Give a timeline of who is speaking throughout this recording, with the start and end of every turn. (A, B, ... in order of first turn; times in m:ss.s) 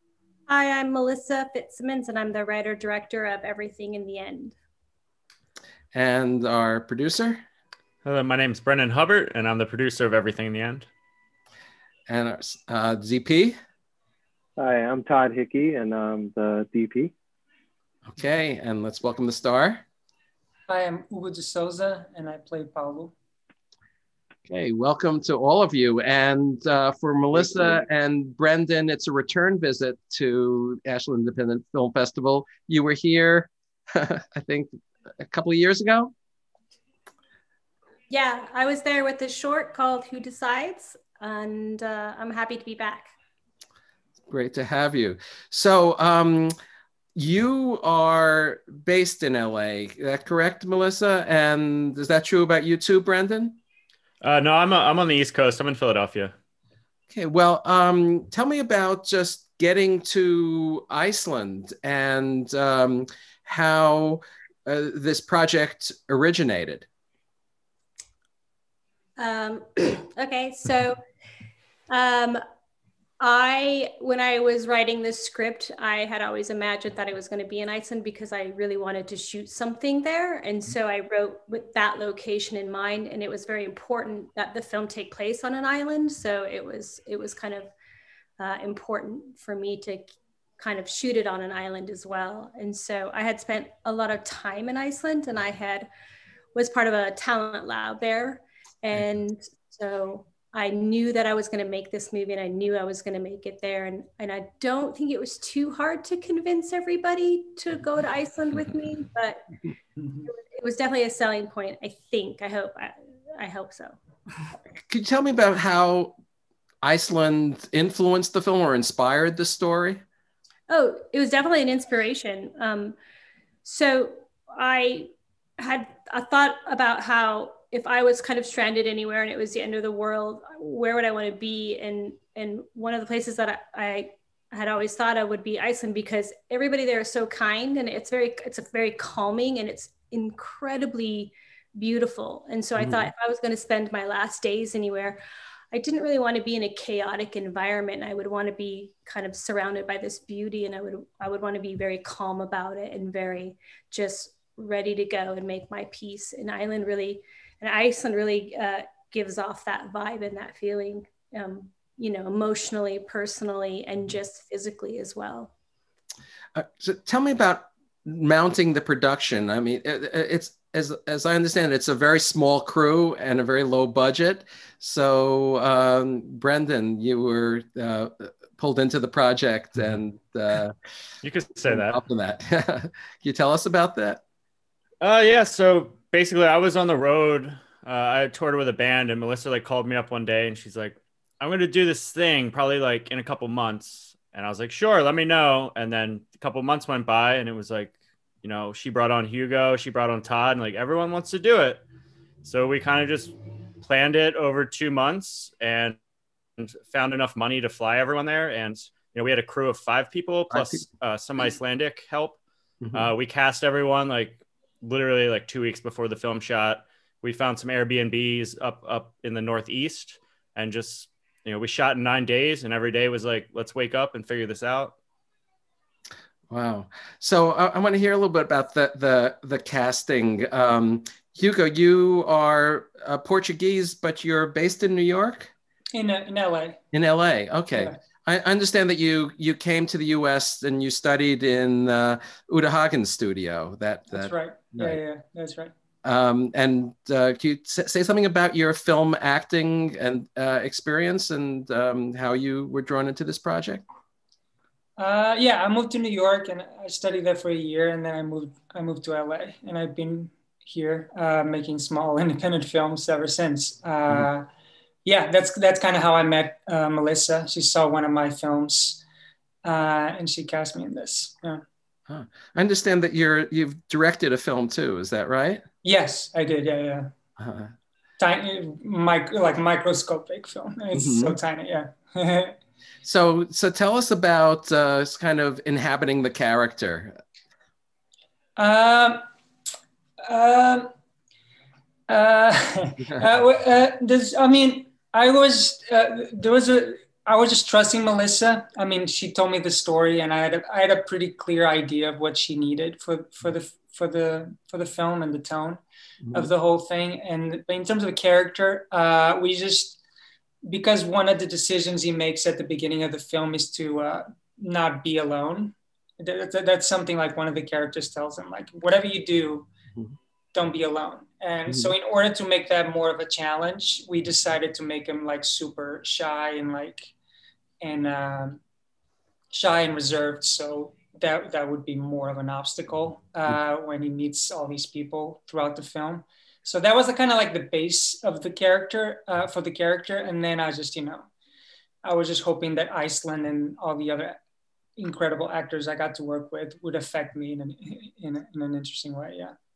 0:00.5-0:04.6 A
0:05.9-0:07.4 B
0:08.0-0:10.9 C
0:12.1-0:13.6 B
0:14.6-0:17.1 D
0:18.1-0:19.8 B
0:20.7-0:23.1 E
0:24.5-0:34.7 B
0:35.2-0:36.1 B
0:38.1-0:43.1 A
0:44.3-0:46.5 B
0:47.2-0:53.6 B
0:54.2-0:56.3 C
0:57.1-1:06.9 B
1:09.2-1:11.0 A
1:11.9-1:12.4 A
1:13.2-1:27.7 A
1:28.4-1:35.9 A
1:36.6-1:49.5 A
1:50.2-1:53.9 A
1:54.9-1:56.2 B
1:56.8-2:00.0 B
2:00.7-2:03.0 A
2:03.6-2:25.2 A
2:22.8-2:23.1 B
2:25.7-2:45.5 A
2:46.6-3:00.8 B
3:01.2-3:02.0 C
3:01.7-3:04.2 B
3:05.0-3:21.8 C
3:22.4-3:26.0 C
3:26.6-3:32.4 C
3:30.5-3:30.8 B
3:32.8-3:33.1 B
3:32.9-3:45.0 C
3:46.5-3:55.5 B
3:55.9-3:56.8 E
3:56.9-4:05.0 B
4:04.1-4:05.7 E
4:06.0-4:13.8 B
4:15.0-4:24.5 E
4:25.0-4:29.0 E
4:29.6-4:31.6 E
4:32.1-4:35.6 B
4:35.8-4:37.1 E
4:37.4-4:37.7 B
4:38.2-4:42.6 E
4:40.9-4:41.4 B
4:43.0-4:47.2 B
4:48.6-4:49.2 E
4:50.3-4:50.9 E
4:52.1-5:05.8 E
5:06.3-5:10.0 E
5:10.6-5:19.7 E
5:20.5-5:27.1 E
5:21.7-5:21.9 B
5:27.8-5:28.6 E
5:29.5-5:41.3 E
5:42.0-5:44.4 E
5:45.0-5:49.5 E